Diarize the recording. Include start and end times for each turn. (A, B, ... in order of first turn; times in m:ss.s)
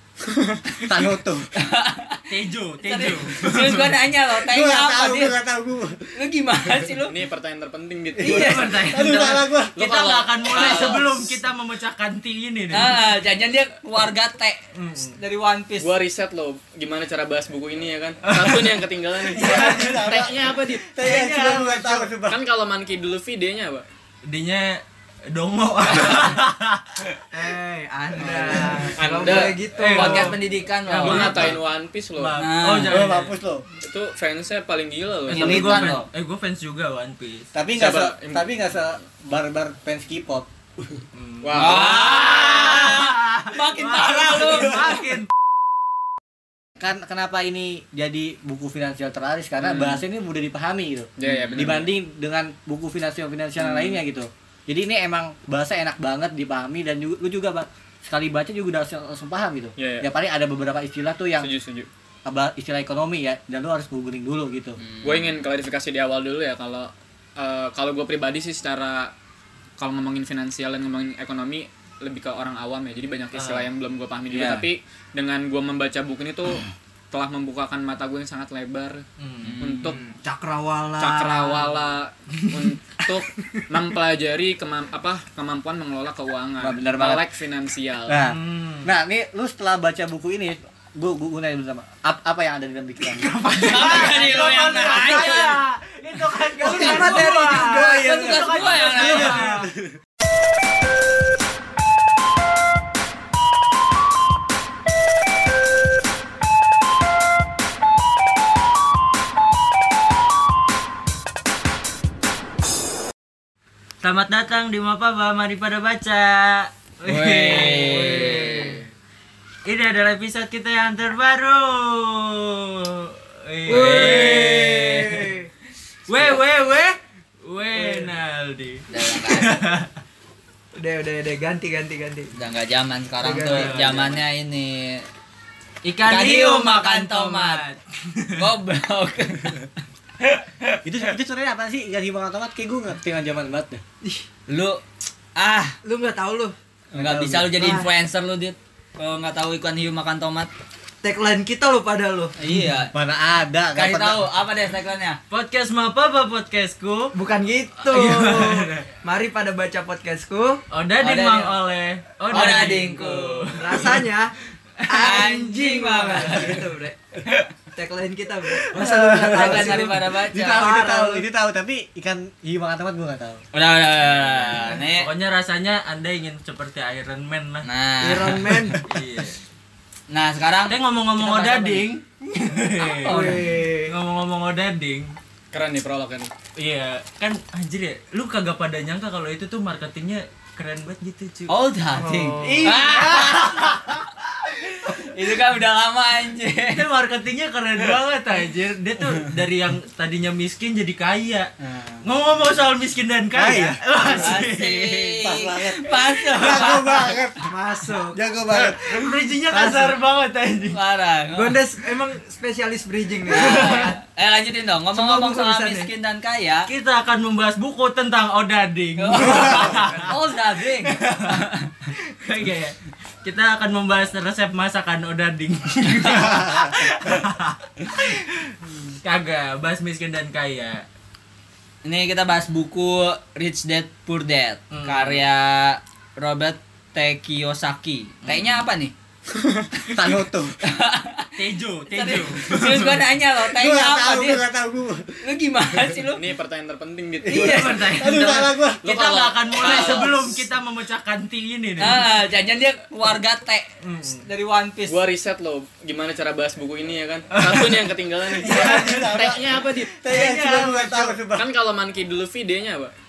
0:00.3-0:00.6 A
0:00.8-0:01.5 B
0:01.6-0:05.4 C
0:02.3-0:04.0 D
0:04.4-0:06.2 B
0:06.1-0:07.2 C
0:07.1-0:08.8 A
0:08.2-0:09.8 B
0:08.2-0:13.0 D
0:09.8-0:11.4 A
0:10.5-0:10.8 C
0:12.7-0:15.9 C
0:14.7-0:15.2 D
0:15.8-0:20.9 A
0:18.2-0:20.2 D
0:19.3-0:22.4 B
0:21.0-0:22.1 D
0:22.3-0:23.8 A
0:24.2-0:27.3 D
0:27.3-0:30.4 E
0:28.2-0:31.6 D
0:29.0-0:29.6 A
0:29.9-0:31.6 C
0:31.0-0:32.4 A
0:32.1-0:33.3 D
0:32.4-0:33.0 C
0:32.9-0:33.7 B
0:33.8-0:35.8 A
0:35.3-0:37.5 D
0:35.3-0:36.0 C
0:35.3-0:36.1 B
0:37.5-0:41.0 B
0:37.7-0:38.5 A
0:41.1-0:45.3 D
0:41.4-0:42.2 A
0:41.5-0:44.8 C
0:46.8-1:01.5 B
0:51.2-0:51.9 A
0:51.2-0:51.8 C
0:53.6-0:54.0 A
0:59.8-1:00.1 A
1:01.4-1:01.9 A
1:02.2-1:04.8 B
1:04.8-1:05.3 C
1:05.0-1:09.1 A
1:09.8-1:19.0 A
1:13.3-1:13.7 D
1:14.3-1:14.7 B
1:19.2-1:20.1 D
1:19.4-1:20.0 C
1:19.6-1:20.0 A
1:20.0-1:21.7 E
1:21.0-1:28.2 A
1:26.6-1:27.3 B
1:28.1-1:33.3 B
1:28.2-1:28.9 D
1:33.1-1:39.7 D
1:33.6-1:35.6 C
1:33.6-1:35.6 E
1:36.4-1:38.1 E
1:36.6-1:40.0 B
1:36.8-1:37.2 C
1:38.0-1:39.5 C
1:39.0-1:39.6 E
1:54.0-1:58.9 D
1:57.0-1:58.8 C
1:59.6-2:05.4 D
2:03.7-2:05.5 E
2:03.7-2:04.4 C
2:06.1-2:09.9 D
2:07.7-2:08.1 E
2:08.9-2:09.6 C
2:10.7-2:12.3 E
2:12.3-2:15.1 C
2:13.2-2:14.1 E
2:13.5-2:14.2 D
2:15.8-2:18.5 D
2:16.0-2:17.6 C
2:18.4-2:19.7 C
2:20.8-2:23.8 B
2:24.5-2:24.8 C
2:25.4-2:25.8 C
2:25.8-2:26.6 E
2:26.9-2:27.8 B
2:27.0-2:30.5 C
2:27.6-2:27.9 E
2:31.0-2:32.4 E
2:32.4-2:32.9 C
2:32.9-2:34.2 B
2:33.8-2:35.2 C
2:35.3-2:37.1 D
2:37.1-2:40.6 E
2:37.8-2:38.9 D
2:40.7-2:44.1 D
2:41.0-2:41.5 C
2:42.3-2:43.6 C
2:43.6-2:44.4 E
2:44.8-2:45.2 D
2:44.9-2:47.0 E
2:44.9-2:46.6 C
2:46.1-2:46.6 D
2:47.7-2:51.2 E
2:48.8-2:53.4 B
2:48.8-2:50.7 C
2:53.5-2:55.1 C
2:54.2-2:57.7 D
2:57.6-2:58.5 C
2:58.0-2:58.9 E
2:58.8-2:59.4 D
3:00.1-3:01.9 C
3:00.7-3:05.2 D
3:02.8-3:03.5 C
3:03.1-3:03.9 E
3:05.5-3:06.3 A
3:06.6-3:11.5 D
3:11.5-3:14.0 C
3:12.0-3:13.4 E
3:12.4-3:14.0 D
3:14.7-3:16.9 C
3:16.7-3:21.5 D
3:21.6-3:22.0 C
3:22.0-3:25.1 D
3:23.3-3:24.2 B
3:24.1-3:27.2 C
3:25.1-3:27.5 B
3:27.4-3:28.2 E
3:28.1-3:29.1 B
3:28.7-3:30.8 D
3:29.5-3:30.0 E
3:30.7-3:31.6 C
3:31.3-3:33.9 E
3:33.3-3:36.7 C
3:33.3-3:33.8 D
3:34.9-3:35.9 E
3:36.7-3:40.1 D
3:39.0-3:41.7 C
3:40.8-3:50.9 D
3:51.8-3:58.9 C
3:54.7-3:55.2 D
3:58.2-3:58.6 D
3:59.9-4:00.6 B
4:00.6-4:01.3 C
4:01.4-4:03.0 D
4:01.9-4:04.4 C
4:03.5-4:05.2 B
4:05.2-4:06.2 C
4:06.1-4:10.3 A
4:07.2-4:08.9 B
4:07.2-4:12.0 D
4:07.3-4:07.8 C
4:09.6-4:10.0 C
4:11.8-4:15.0 C
4:13.8-4:14.2 D
4:14.9-4:19.9 A
4:17.3-4:17.8 D
4:18.4-4:19.1 D
4:18.4-4:21.5 B
4:20.0-4:21.1 D
4:21.3-4:22.9 A